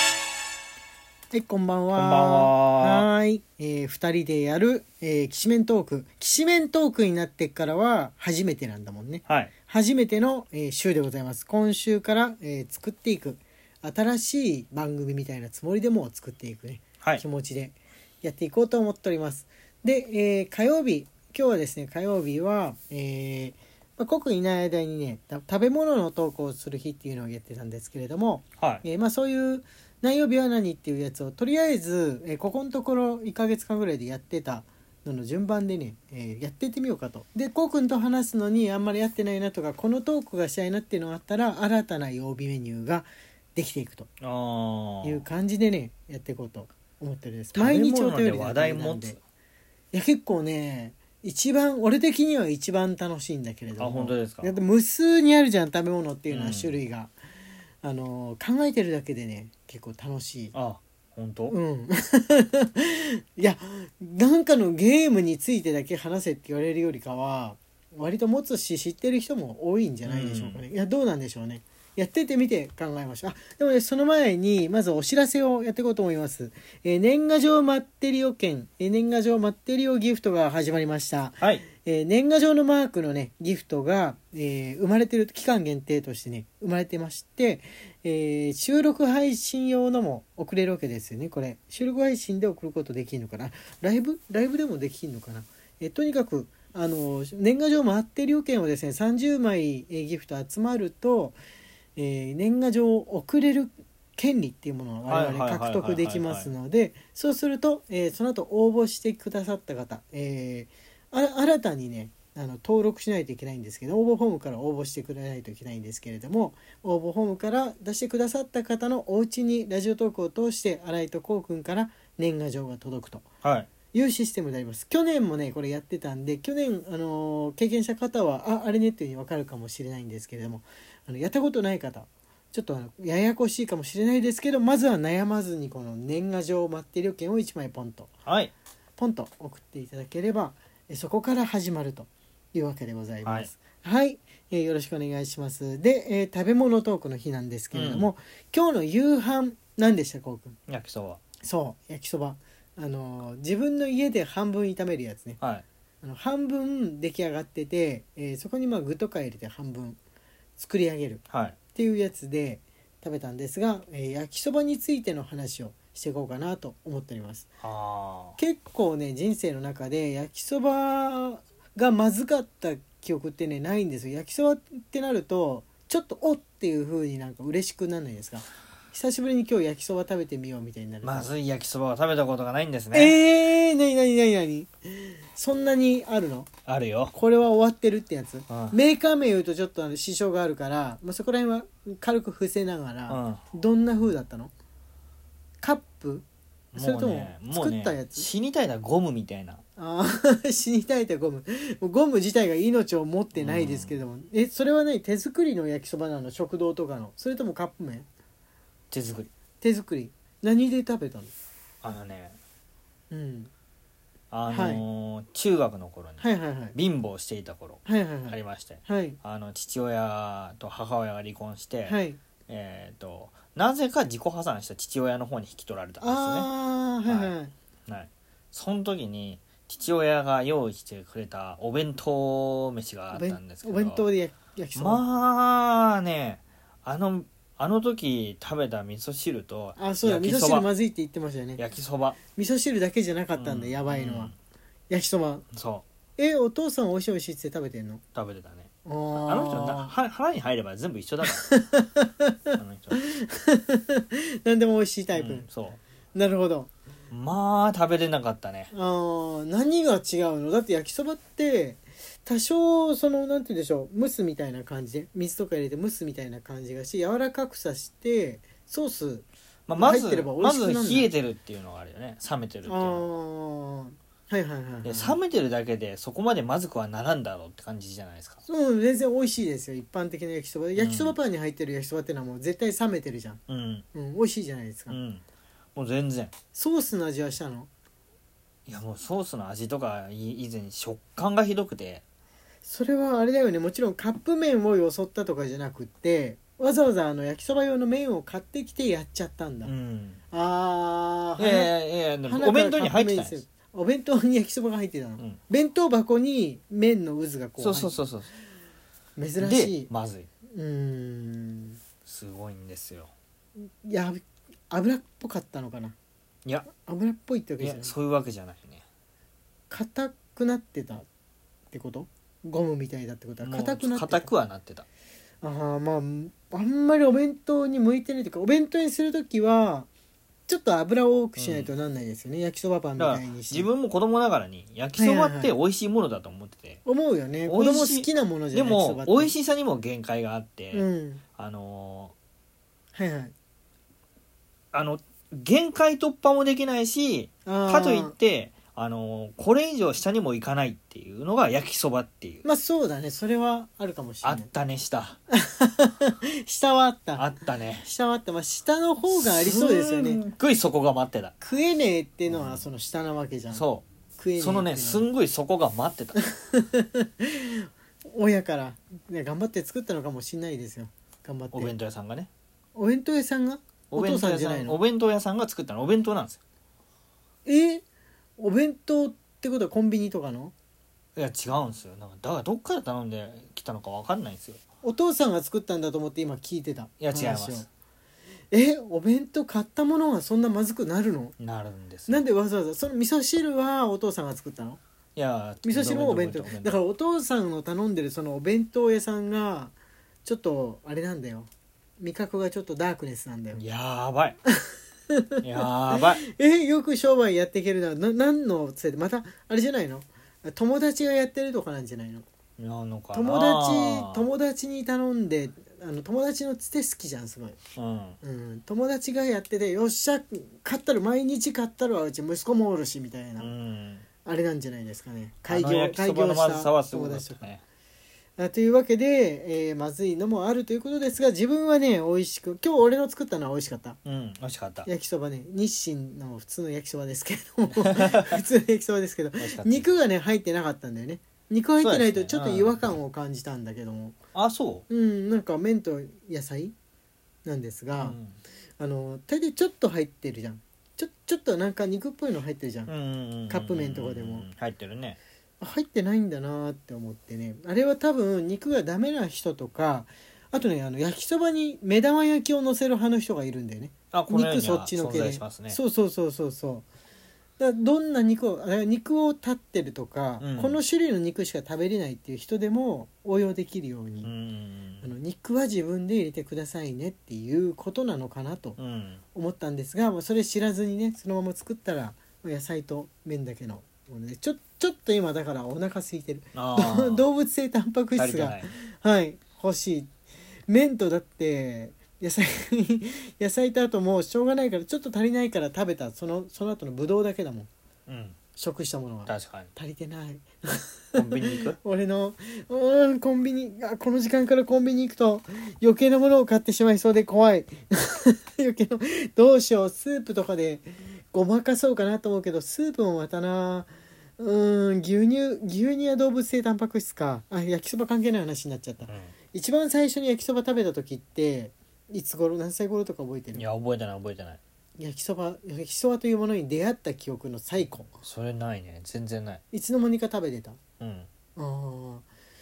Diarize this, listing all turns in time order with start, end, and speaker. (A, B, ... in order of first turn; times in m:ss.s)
0:01.3-0:44.1 A
0:01.9-0:03.1 B
0:09.2-0:09.5 B
0:28.6-0:28.8 B
0:44.2-0:45.2 B
0:45.0-0:49.2 A
0:47.5-0:49.2 B
0:49.9-0:57.1 A
0:53.8-0:54.6 B
0:56.3-0:56.8 B
0:57.8-1:00.5 A
1:00.5-1:01.6 B
1:01.5-1:41.4 A
1:10.0-1:10.6 B
1:21.4-1:21.7 B
1:42.0-2:03.2 A
1:45.1-1:46.5 B
2:03.4-2:03.7 B
2:03.9-2:18.1 A
2:18.2-2:18.5 B
2:19.0-2:30.6 A
2:23.2-2:23.5 B
2:27.7-2:28.1 B
2:30.7-2:31.2 B
2:31.4-2:35.4 A
2:35.4-2:35.6 B
2:36.0-2:40.0 A
2:40.6-2:41.2 A
2:41.3-2:41.6 B
2:41.7-2:47.5 A
2:47.6-2:48.4 B
2:48.4-3:01.3 A
3:01.0-3:03.2 B
3:02.9-3:06.5 A
3:06.6-3:07.1 B
3:07.1-3:14.5 A
3:08.5-3:08.8 B
3:13.1-3:13.4 B
3:15.6-3:18.3 A
3:16.7-3:19.6 B
3:19.8-3:28.1 A
3:23.4-3:24.0 B
3:28.9-3:29.3 B
3:29.6-3:31.3 A
3:31.8-3:32.4 B
3:33.1-3:33.5 A
3:34.3-3:46.5 B
3:34.5-3:34.8 A
3:36.2-3:36.7 A
3:37.8-3:39.2 A
3:41.8-3:42.2 A
3:46.0-3:47.5 A
3:47.0-3:47.3 B
3:47.9-3:54.0 B
3:53.1-3:55.0 A
3:54.8-4:00.7 B
3:59.8-4:01.6 A
4:01.6-4:02.2 B
4:02.3-4:04.3 A
4:03.3-4:04.4 B
4:04.9-4:05.4 A
4:05.5-4:05.8 B
4:06.2-4:08.0 A
4:08.1-4:11.4 B
4:08.8-4:09.9 A
4:11.4-4:15.4 A
4:12.6-4:13.0 B
4:15.1-4:15.8 B
4:16.1-4:16.7 A
4:17.1-4:18.7 B
4:18.7-4:31.1 A
4:29.7-4:33.0 B
4:32.7-4:35.2 A
4:34.8-4:38.4 B
4:38.4-4:43.4 A
4:40.8-4:41.2 B
4:43.5-4:43.8 B
4:43.9-4:45.0 A
4:44.9-4:45.2 B
4:45.8-4:46.3 B
4:46.5-4:47.7 A
4:48.6-4:52.0 B
4:52.6-4:59.7 A
4:59.6-5:00.2 B
5:00.3-5:01.7 A
5:01.4-5:03.4 B
5:02.2-5:07.9 A
5:07.6-5:08.3 B
5:09.2-5:09.9 A
5:09.4-5:10.3 B
5:10.5-5:11.8 A
5:12.0-5:13.1 B
5:13.6-5:16.0 A
5:16.7-5:17.9 A
5:17.6-5:18.8 B
5:19.7-5:21.0 A
5:21.7-5:24.3 A
5:23.4-5:24.8 B
5:25.4-5:29.9 A
5:30.5-5:33.7 A
5:31.4-5:31.7 B
5:33.0-5:36.8 B
5:35.0-5:35.5 A
5:36.8-5:39.3 A
5:37.4-5:40.8 B
5:40.7-5:41.2 A
5:41.4-5:42.1 B
5:42.9-5:43.3 A
5:44.7-5:52.4 B
5:47.4-5:48.1 A
5:52.4-5:54.5 A
5:54.2-5:55.2 B
5:55.3-5:57.2 A
5:57.2-5:57.9 B
5:57.8-6:00.2 A
5:59.1-6:01.3 B
6:01.4-6:03.6 A
6:02.3-6:02.6 B
6:03.5-6:03.8 B
6:04.2-6:05.0 A
6:04.4-6:06.2 B
6:06.4-6:11.7 A
6:11.5-6:12.3 B
6:12.7-6:14.8 A
6:13.9-6:16.4 B
6:17.4-6:17.8 A
6:18.4-6:20.5 A
6:21.2-6:24.6 B
6:24.8-6:27.7 A
6:27.0-6:27.6 B
6:28.5-6:31.3 A
6:31.4-6:32.2 B
6:32.1-6:34.8 A
6:35.2-6:36.8 B
6:35.6-6:39.7 A
6:40.2-6:43.6 A
6:43.5-6:44.4 B
6:45.4-6:46.2 B
6:45.9-6:52.2 A
6:52.6-6:54.3 B
6:53.1-6:57.6 A
6:57.8-6:58.2 B
6:58.2-7:03.5 A
7:03.4-7:04.0 B
7:04.2-7:07.5 A
7:05.5-7:07.6 B
7:08.4-7:14.0 A
7:14.0-7:14.9 B
7:14.8-7:24.1 A
7:17.8-7:18.4 B
7:19.4-7:19.9 B
7:21.8-7:22.9 B
7:24.3-7:24.8 B
7:24.9-7:26.7 A
7:27.4-7:28.2 A
7:28.0-7:28.4 B
7:28.8-7:32.9 A
7:32.9-7:35.2 B
7:33.5-7:34.5 A
7:35.6-7:46.8 A
7:44.1-7:45.8 B
7:47.6-7:54.3 A
7:50.4-7:50.8 B
7:54.2-7:55.1 B
7:55.0-7:58.8 A
7:58.8-7:59.2 B
7:59.3-8:10.1 A
8:06.5-8:07.2 B
8:08.1-8:08.7 B
8:10.7-8:17.7 A
8:18.1-8:18.4 B
8:18.6-8:43.7 A
8:19.3-8:19.7 B
8:21.1-8:21.8 B
8:39.0-8:39.3 B
8:43.5-8:44.6 B
8:45.0-8:48.1 A
8:48.2-8:49.6 B
8:49.7-8:50.8 A
8:51.0-8:51.3 B
8:51.6-8:52.2 A